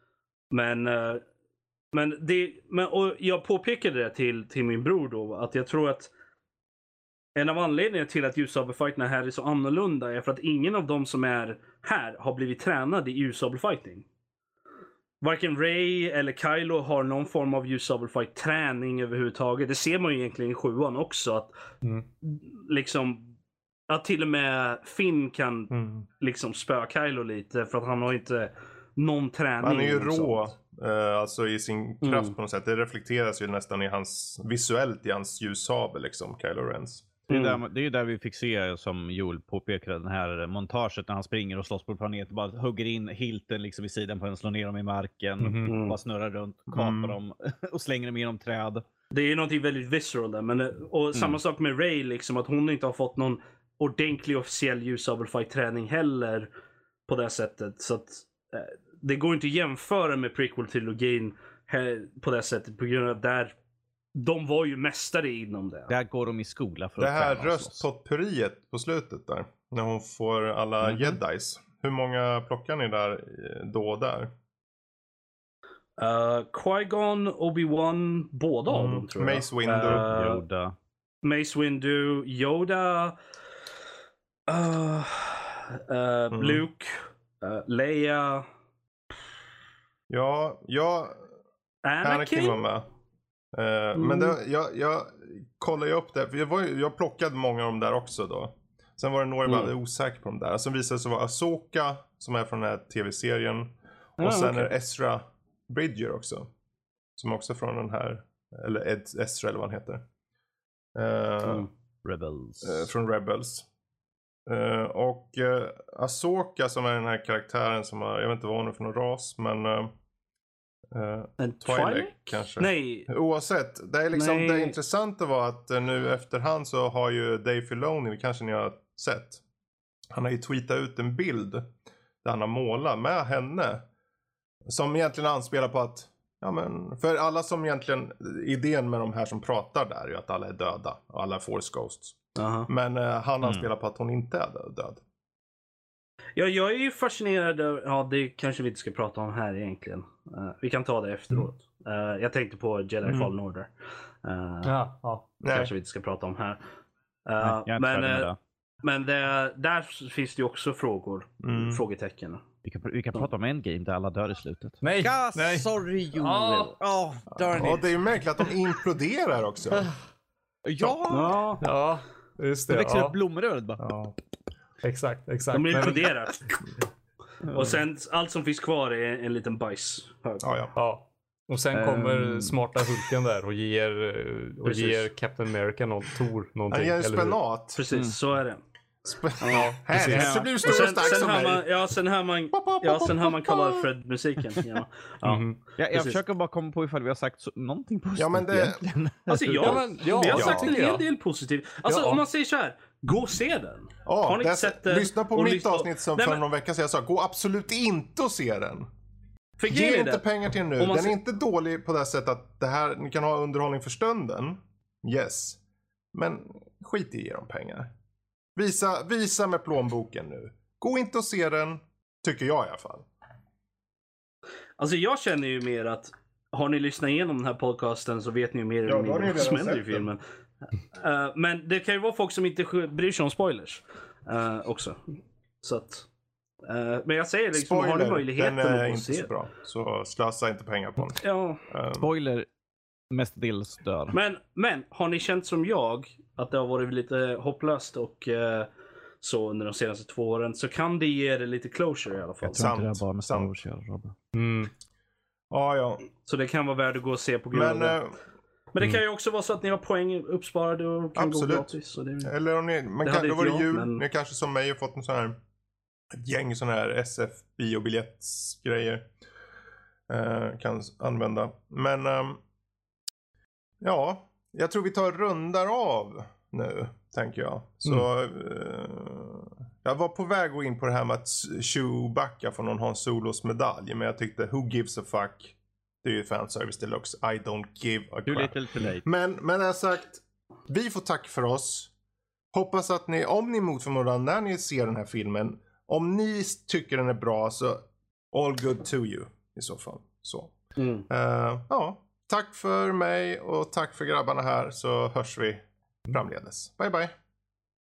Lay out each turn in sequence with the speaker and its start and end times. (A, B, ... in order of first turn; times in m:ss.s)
0:00.5-0:01.2 A
0:01.9-0:06.1 A
0:07.4-0:14.0 A
0:15.2-0:21.5 A
0:22.2-0:23.4 A
0:23.9-0:30.5 A
0:25.7-0:26.0 B
0:29.6-0:37.1 B
0:32.0-0:32.3 A
0:37.3-0:48.8 C
0:37.3-0:37.6 A
0:45.4-0:45.7 D
0:45.6-0:46.0 A
0:46.7-0:47.2 B
0:49.1-0:56.5 A
0:57.1-1:03.5 A
1:04.1-1:05.9 A
1:05.9-1:07.8 C
1:07.0-1:14.3 B
1:10.8-1:11.2 C
1:16.0-1:20.4 A
1:18.7-1:20.1 B
1:19.9-1:20.7 C
1:21.2-1:23.2 A
1:24.5-1:28.4 A
1:26.3-1:26.6 B
1:30.1-1:31.2 B
1:31.8-1:32.6 A
1:32.0-1:32.9 B
1:33.5-1:46.5 B
1:33.9-1:34.4 A
1:39.4-1:39.7 A
1:44.2-1:44.7 A
1:47.2-1:50.0 B
1:50.9-1:51.7 B
1:52.0-1:52.9 C
1:52.6-1:53.7 B
1:54.5-1:59.9 B
2:00.9-2:09.4 B
2:01.4-2:03.1 A
2:04.1-2:04.8 A
2:10.1-2:11.7 B
2:12.2-2:13.8 B
2:14.7-2:25.0 B
2:22.4-2:22.7 A
2:23.4-2:23.7 C
2:26.4-2:33.7 A
2:34.2-2:34.7 A
2:34.6-2:35.4 D
2:35.4-2:35.7 B
2:35.5-2:36.6 A
2:37.2-2:42.4 A
2:37.4-2:38.4 C
2:41.4-2:41.8 B
2:42.6-2:48.0 C
2:44.8-2:46.7 D
2:47.4-2:49.9 B
2:50.6-2:51.4 C
2:51.1-2:51.6 A
2:51.6-2:53.1 D
2:52.7-2:53.8 C
2:53.8-2:54.2 B
2:54.8-2:56.3 D
2:55.5-2:56.4 A
2:55.8-2:56.1 C
2:57.4-2:57.8 C
2:57.5-3:00.5 A
3:00.4-3:00.7 B
3:00.7-3:07.4 D
3:01.7-3:02.6 C
3:04.6-3:05.1 A
3:06.7-3:07.8 B
3:07.7-3:08.6 A
3:07.9-3:08.2 C
3:09.0-3:11.7 B
3:09.4-3:09.7 A
3:09.5-3:10.4 D
3:09.9-3:10.8 C
3:10.6-3:16.2 A
3:12.5-3:13.9 B
3:15.2-3:15.6 D
3:15.8-3:20.5 C
3:18.2-3:18.8 B
3:19.3-3:26.4 A
3:19.6-3:21.0 D
3:20.3-3:20.7 B
3:21.9-3:22.2 D
3:24.0-3:28.9 B
3:29.6-3:30.2 A
3:29.7-3:35.6 B
3:30.8-3:31.2 A
3:36.1-3:37.9 B
3:38.6-3:43.0 B
3:44.8-3:50.2 A
3:48.8-3:50.1 B
3:50.9-3:56.1 A
3:56.6-3:59.3 A
3:57.5-4:02.1 B
4:01.2-4:01.6 A
4:02.0-4:02.5 C
4:03.1-4:04.2 C
4:04.1-4:08.7 A
4:09.2-4:12.8 A
4:12.4-4:13.5 B
4:12.4-4:14.2 C
4:14.3-4:14.7 D
4:15.5-4:16.0 B
4:16.2-4:18.0 A
4:17.5-4:18.1 B
4:18.7-4:22.3 A
4:21.1-4:25.4 B
4:23.0-4:24.0 A
4:26.1-4:29.1 B
4:30.1-4:32.4 B
4:33.8-4:51.9 B
4:48.2-4:49.0 C
4:52.5-5:00.5 B
5:00.8-5:01.1 A
5:01.1-5:07.1 B